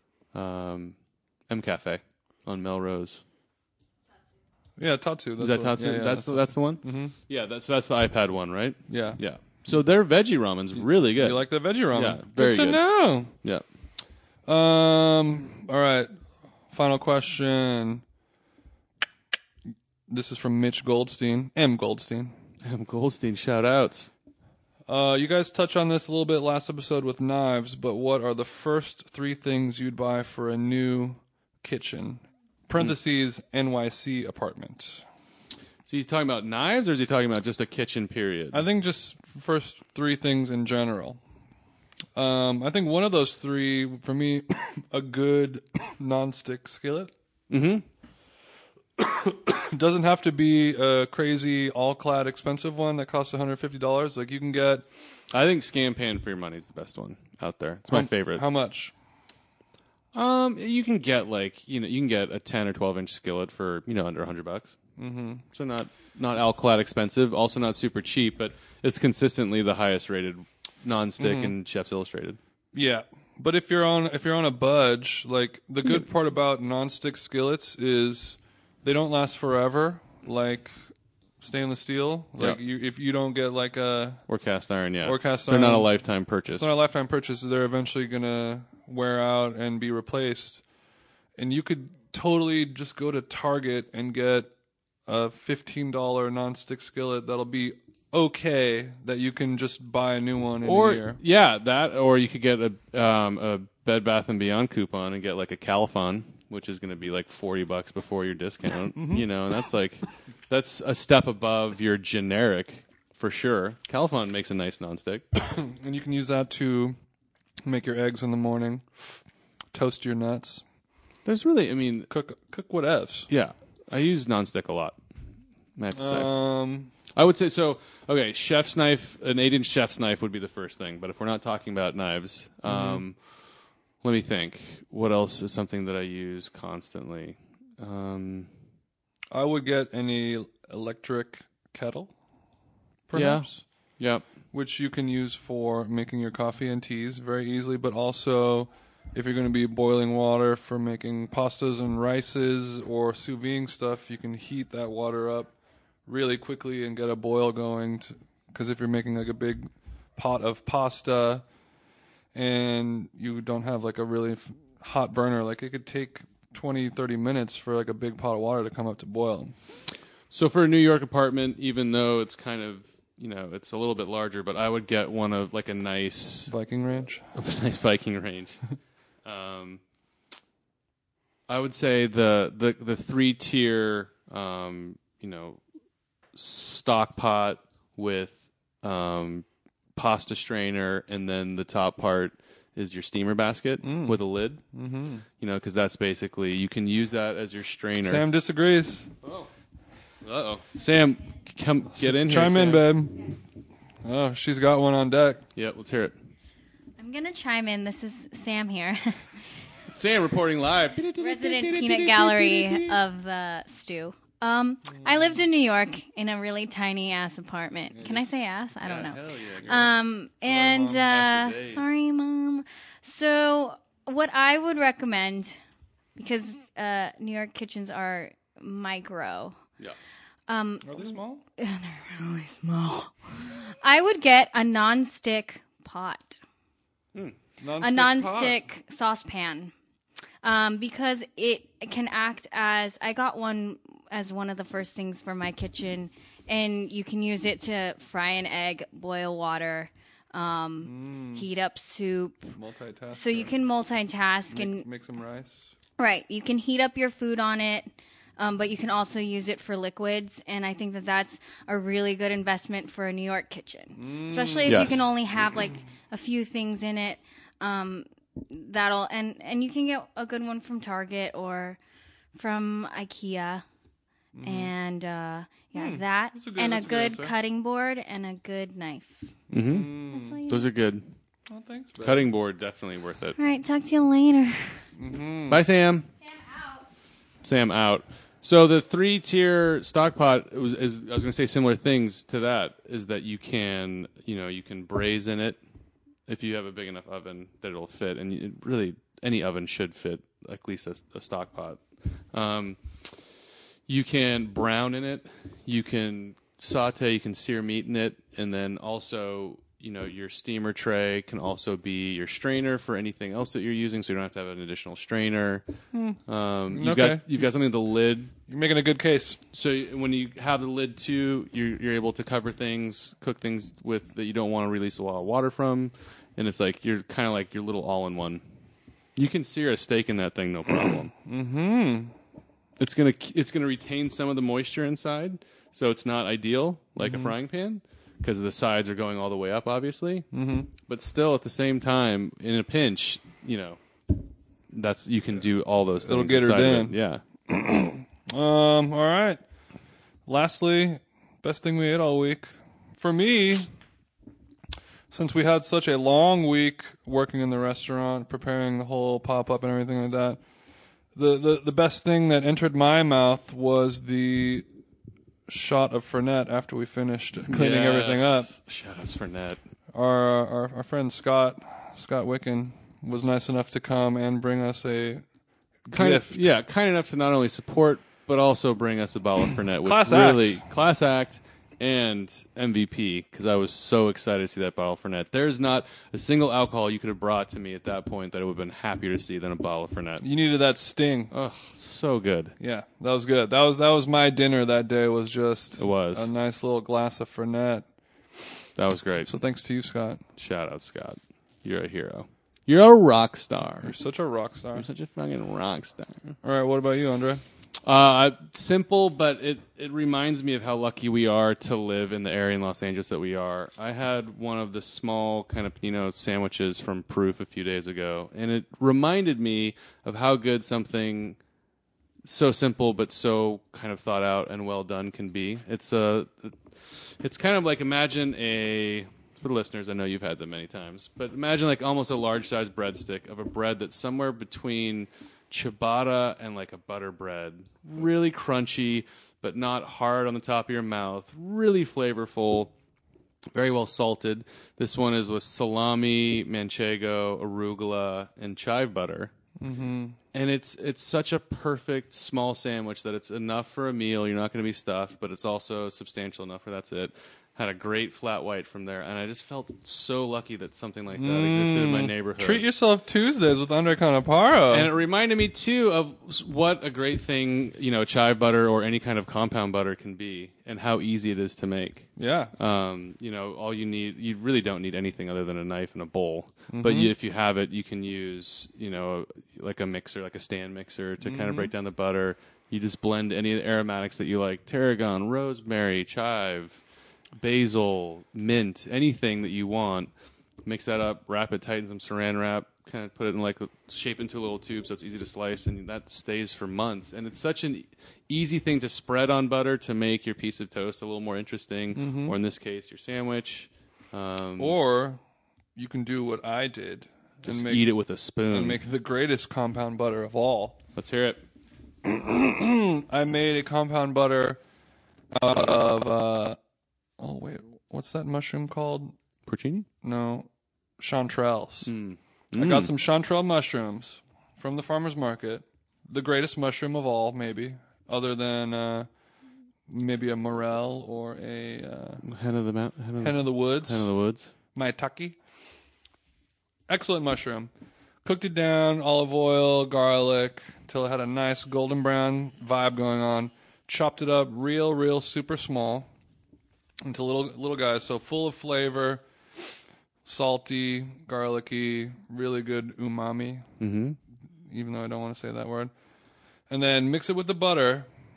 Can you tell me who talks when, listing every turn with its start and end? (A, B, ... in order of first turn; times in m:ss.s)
0:00.3-0:01.0 A
0:01.5-0:03.2 A
0:04.8-0:07.1 B
0:05.4-0:12.8 A
0:08.9-0:09.2 B
0:10.8-0:13.3 B
0:13.3-0:13.6 A
0:14.4-0:16.1 B
0:16.7-0:18.0 B
0:20.1-0:22.3 B
0:22.6-0:24.1 A
0:24.9-0:35.0 B
0:35.8-0:38.6 A
0:38.5-0:41.2 B
0:42.2-0:47.1 B
0:47.5-0:47.8 A
0:49.0-0:54.9 B
0:55.3-0:58.4 A
0:57.9-0:58.9 B
1:00.1-1:04.8 A
1:05.0-1:05.4 B
1:05.5-1:12.4 A
1:11.2-1:11.5 B
1:12.7-1:20.7 B
1:21.4-1:24.2 B
1:24.3-1:26.7 A
1:25.0-1:25.9 B
1:26.5-1:30.6 B
1:31.4-1:34.5 B
1:35.1-1:41.2 B
1:40.6-1:55.2 A
1:49.0-1:49.2 B
1:55.4-1:57.0 B
1:57.6-1:58.8 B
1:59.7-2:00.6 B
2:01.2-2:02.1 A
2:02.1-2:03.3 B
2:03.3-2:05.0 A
2:05.8-2:06.3 A
2:05.9-2:06.9 B
2:07.1-2:13.2 A
2:12.7-2:13.0 B
2:14.0-2:18.5 A
2:19.3-2:22.1 B
2:23.1-2:23.6 B
2:23.1-2:24.3 A
2:24.5-2:35.5 B
2:36.0-2:41.4 B
2:42.3-2:49.5 B
2:50.3-2:56.5 A
2:56.5-2:57.2 B
2:57.3-2:58.6 A
2:59.2-2:59.8 A
3:01.5-3:05.6 A
3:06.3-3:14.6 A
3:13.8-3:14.2 B
3:14.7-3:15.2 B
3:15.4-3:18.2 A
3:18.0-3:19.1 B
3:19.2-3:19.5 A
3:20.2-3:22.9 A
3:21.9-3:23.3 B
3:24.0-3:25.4 B
3:25.6-3:26.1 A
3:27.0-3:29.3 C
3:29.9-3:33.0 A
3:31.2-3:45.6 C
3:37.9-3:38.2 B
3:38.8-3:39.8 A
3:39.6-3:39.9 B
3:40.5-3:41.0 B
3:40.5-3:41.9 A
3:46.2-3:49.6 C
3:50.5-3:56.4 C
3:50.8-3:51.4 B
3:57.6-3:58.6 B
3:57.8-3:59.7 C
4:00.4-4:12.5 C
4:10.8-4:11.4 B
4:12.5-4:13.5 B
4:13.1-4:14.8 C
4:14.5-4:15.7 B
4:16.0-4:31.8 C
4:23.9-4:25.0 B
4:24.6-4:25.1 A
4:32.3-4:33.6 C
4:34.3-4:34.7 B
4:34.4-4:39.3 C
4:35.7-4:37.3 B
4:39.5-4:41.0 A
4:39.5-4:40.4 B
4:40.1-4:40.7 C
4:41.5-4:42.3 B
4:42.0-4:43.4 A
4:43.4-4:44.8 C
4:45.0-4:45.6 B
4:45.5-4:46.1 A
4:46.2-4:46.8 C
4:47.4-4:55.6 A
4:56.3-5:02.8 A
5:03.9-5:15.6 A
5:15.9-5:17.4 B
5:16.2-5:18.3 A
5:18.5-5:19.4 B
5:19.5-5:28.4 A
5:29.2-5:31.1 A
5:31.2-5:32.1 B
5:32.8-5:44.2 A
5:37.0-5:37.3 B
5:40.3-5:40.7 B
5:44.7-5:47.2 A
5:46.0-5:46.9 B
5:47.5-5:49.4 B
5:50.3-5:53.7 B
5:55.1-6:00.4 B
6:01.1-6:04.6 B
6:05.5-6:08.5 B
6:07.4-6:09.6 A
6:09.9-6:15.2 B
6:15.8-6:16.5 B
6:15.9-6:30.2 A
6:19.8-6:20.6 B
6:30.2-6:31.3 B
6:31.3-6:32.5 A
6:32.6-6:37.8 B
6:35.8-6:36.3 A
6:38.8-6:39.3 A
6:39.3-6:40.2 B
6:40.4-6:43.9 A
6:43.8-6:44.9 B
6:44.7-6:46.3 A
6:46.4-6:47.4 B
6:47.8-7:01.4 A
7:02.2-7:22.7 A
7:23.5-7:29.3 A
7:29.6-7:30.2 B
7:30.3-7:42.6 A
7:41.1-7:44.9 B
7:44.7-8:06.8 A
7:52.2-7:52.5 B
7:56.7-7:57.1 B
8:01.2-8:01.7 B
8:07.4-8:10.1 A
8:10.6-8:24.8 A
8:21.9-8:22.4 B
8:24.6-8:25.2 B
8:25.8-8:27.8 B
8:27.4-8:28.8 A
8:28.5-8:30.8 B
8:30.9-8:31.4 A
8:32.0-8:34.6 B
8:35.3-8:36.6 B
8:37.2-8:39.1 B
8:39.5-8:39.8 A
8:40.0-8:40.5 B
8:41.0-8:41.9 B
8:41.8-8:42.9 A
8:42.5-8:49.1 B
8:49.9-8:52.2 B
8:52.2-8:54.5 A
8:53.2-8:54.1 B
8:54.7-8:55.4 B
8:56.9-8:57.7 B
8:58.2-9:06.1 B
9:07.0-9:09.2 B
9:10.2-9:13.7 B
9:13.8-9:14.2 A
9:14.7-9:15.9 B
9:16.7-9:18.1 B